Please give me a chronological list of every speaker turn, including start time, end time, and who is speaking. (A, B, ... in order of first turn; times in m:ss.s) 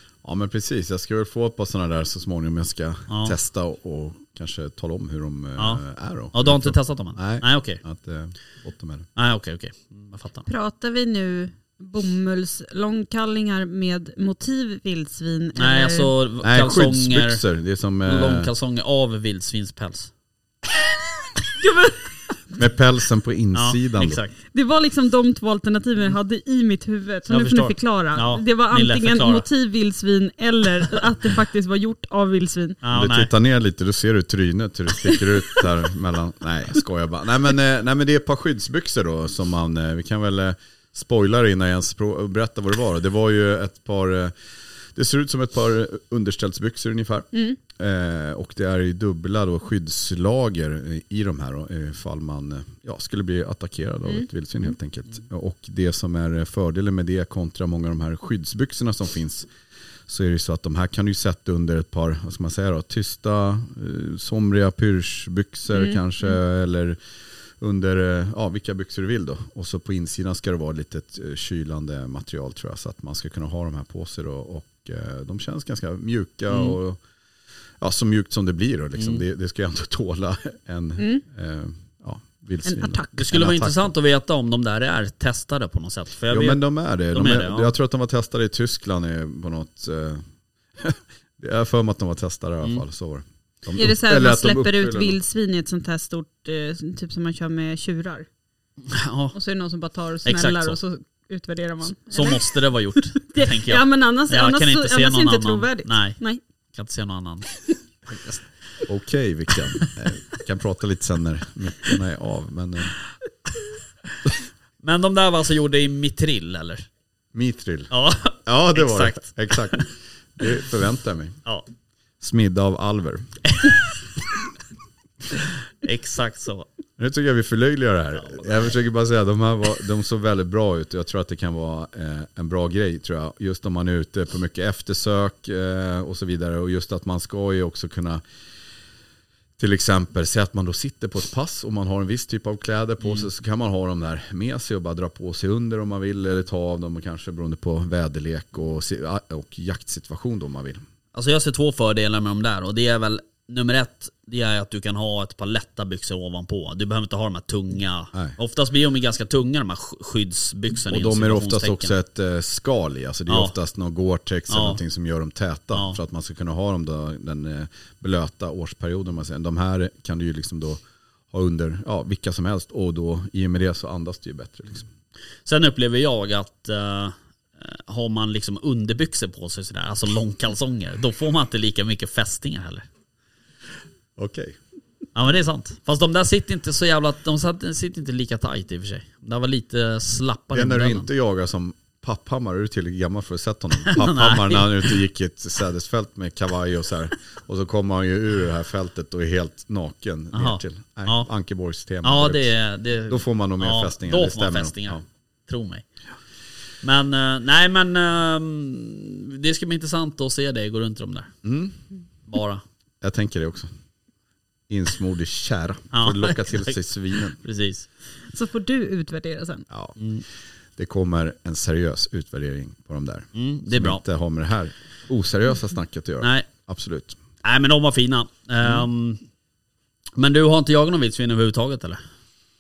0:00.2-0:09.1 A
0:03.1-0:03.4 B
0:06.3-0:07.8 B
0:09.2-0:10.5 B
0:10.5-0:16.1 C
0:15.6-0:17.4 B
0:16.4-0:18.5 A
0:18.0-0:20.1 B
0:21.6-0:22.0 C
0:22.6-0:24.2 A
0:23.5-0:24.3 B
0:24.5-0:32.8 C
0:27.3-0:29.5 B
0:32.8-0:33.3 B
0:32.9-0:44.4 A
0:44.9-0:59.5 A
1:00.1-1:07.0 A
1:05.7-1:06.0 C
1:07.6-1:17.0 A
1:16.5-1:16.8 B
1:17.8-1:23.9 A
1:19.0-1:19.2 B
1:21.0-1:21.2 C
1:22.7-1:23.1 C
1:23.2-1:26.6 B
1:26.3-1:30.2 A
1:27.1-1:27.7 B
1:30.8-1:35.2 A
1:33.8-1:38.3 C
1:38.9-1:39.4 B
1:39.3-1:46.4 C
1:40.2-1:40.8 B
1:42.1-1:46.2 B
1:46.8-1:48.4 B
1:48.9-1:52.9 A
1:54.8-1:56.9 B
1:57.3-1:57.9 A
1:57.9-1:59.9 B
1:58.4-2:01.4 A
2:02.2-2:03.4 A
2:03.5-2:03.8 B
2:05.3-2:06.7 B
2:07.0-2:18.2 A
2:08.2-2:08.7 B
2:19.6-2:30.8 A
2:31.1-2:42.0 B
2:40.9-2:54.9 A
2:43.3-2:43.5 B
2:44.5-2:44.8 B
2:45.7-2:46.0 B
2:55.4-3:02.9 B
3:04.2-3:04.6 A
3:05.2-3:11.1 B
3:10.5-3:22.5 A
3:13.9-3:15.0 B
3:20.3-3:21.3 B
3:22.0-3:25.8 B
3:23.1-3:25.0 A
3:26.8-3:31.3 B
3:31.4-3:31.8 A
3:32.3-3:32.6 B
3:33.0-3:33.7 A
3:34.7-3:37.4 A
3:35.9-3:36.8 B
3:37.3-3:37.9 B
3:38.3-3:39.7 C
3:39.7-3:40.0 A
3:40.0-3:40.2 B
3:40.8-3:47.2 A
3:43.4-3:44.0 B
3:46.2-3:46.5 B
3:47.4-3:49.2 B
3:50.2-3:52.0 B